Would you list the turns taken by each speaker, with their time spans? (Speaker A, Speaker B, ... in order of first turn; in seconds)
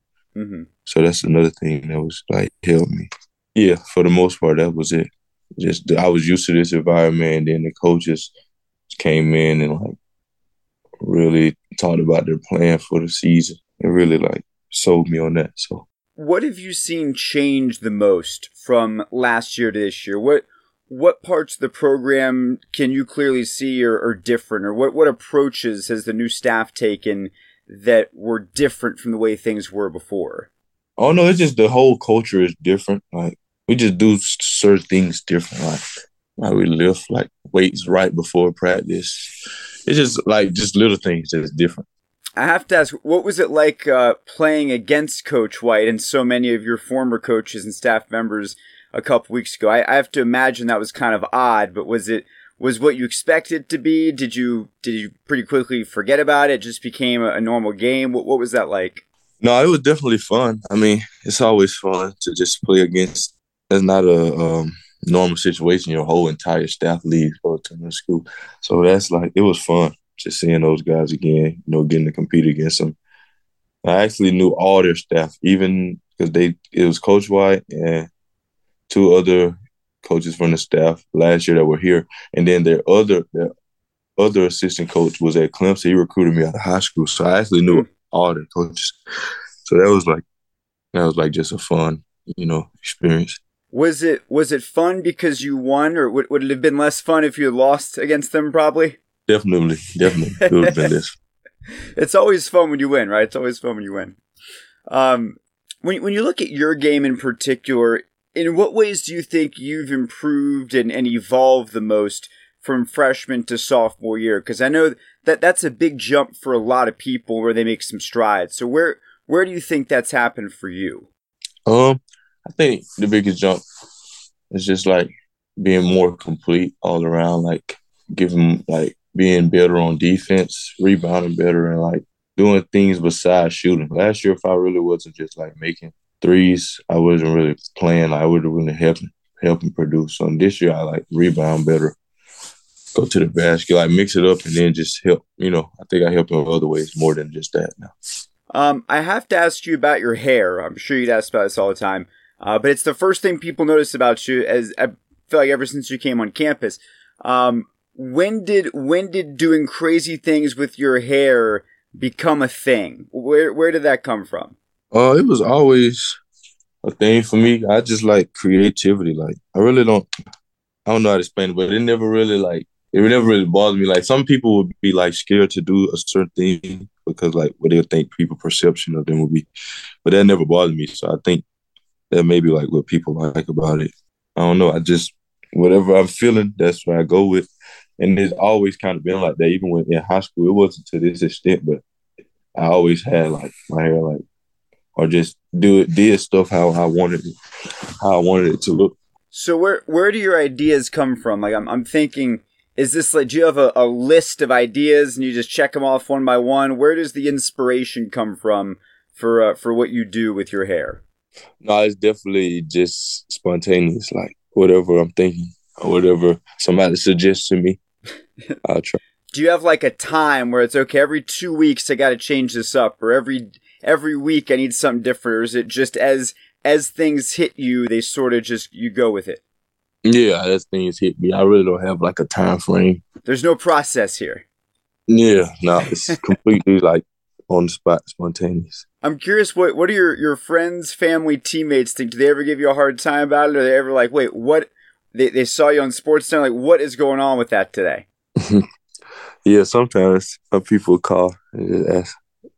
Speaker A: 0.3-0.7, 16.2-30.5, 42.4-59.0, 93.7-99.0, 102.0-104.2, 104.9-121.1, 148.5-164.5, 199.3-211.0, 219.3-229.4, 233.2-234.4, 239.0-248.0
Speaker B: 0.8-8.3, 8.9-9.9, 11.0-15.8, 31.0-35.8, 36.4-39.3, 39.9-41.8, 59.4-73.0, 73.8-78.1, 78.9-83.5, 84.2-89.0, 89.7-90.2, 90.9-93.4, 99.3-101.1, 121.7-123.6, 124.5-141.9, 142.9-147.9, 164.9-166.2, 166.8-170.1, 170.8-179.5, 180.0-181.4, 182.1-187.4, 188.0-191.8, 192.5-194.2, 194.9-197.3, 198.0-198.9, 211.6-217.8, 218.6-219.0, 230.0-233.0, 235.1-238.8, 248.4-248.7, 249.4-252.1